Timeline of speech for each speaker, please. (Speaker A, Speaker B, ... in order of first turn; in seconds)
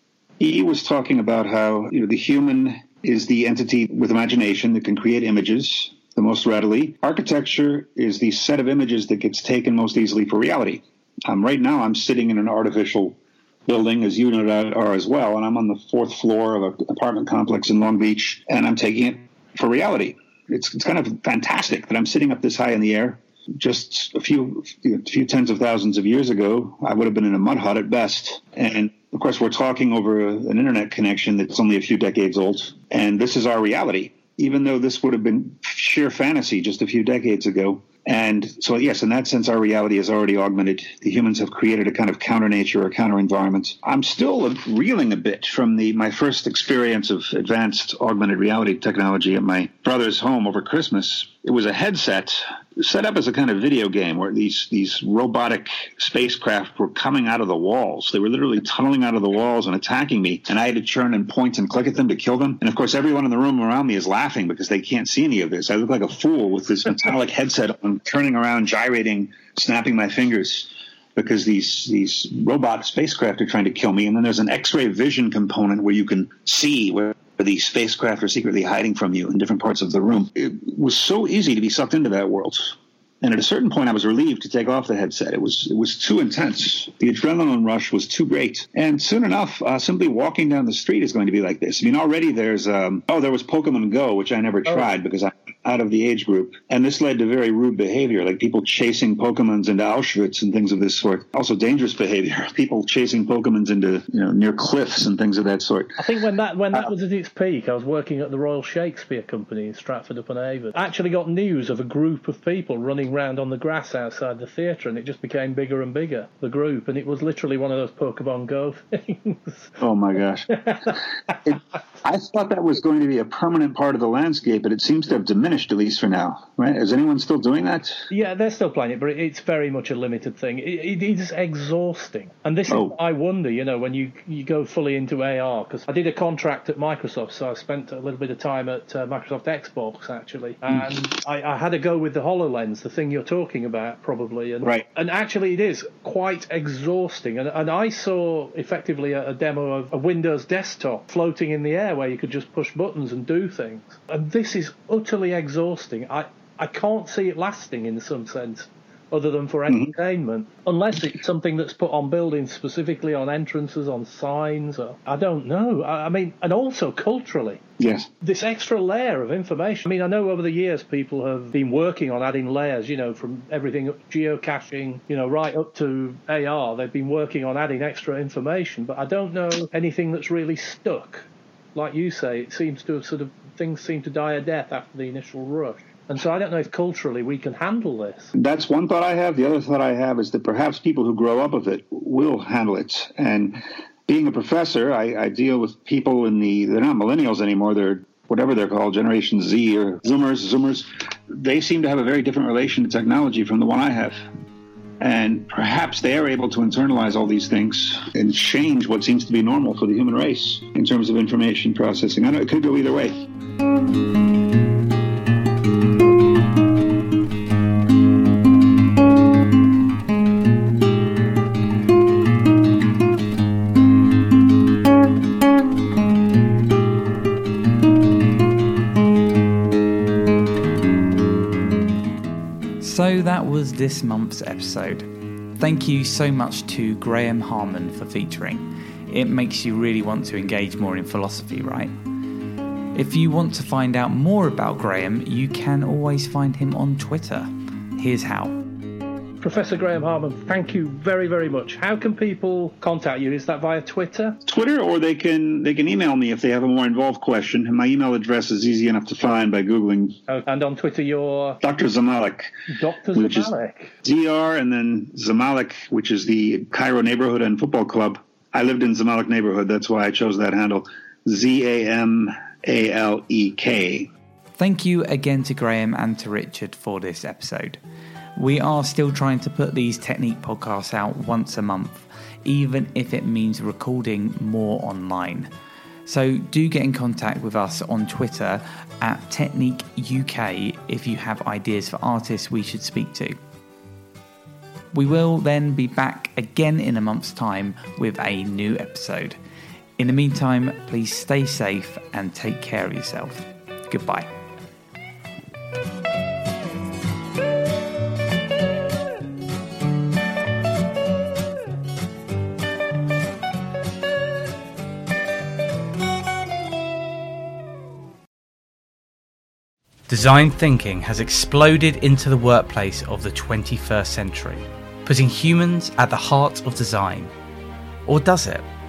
Speaker A: 0.4-106.0, 119.8-120.5, 121.5-128.1, 132.7-132.9, 159.7-159.9, 167.8-168.1, 188.3-204.2, 205.0-213.2, 254.5-260.2, 261.6-262.5, 263.1-274.1
Speaker B: 106.0-119.7, 120.5-121.3, 128.1-167.6, 168.2-188.3, 249.4-254.4, 260.3-261.6, 262.7-263.9
Speaker C: 232.8-241.9, 242.9-248.6, 274.6-277.8, 278.4-285.5, 286.1-293.4, 294.9-299.4, 300.0-304.3, 320.1-327.3, 328.1-328.6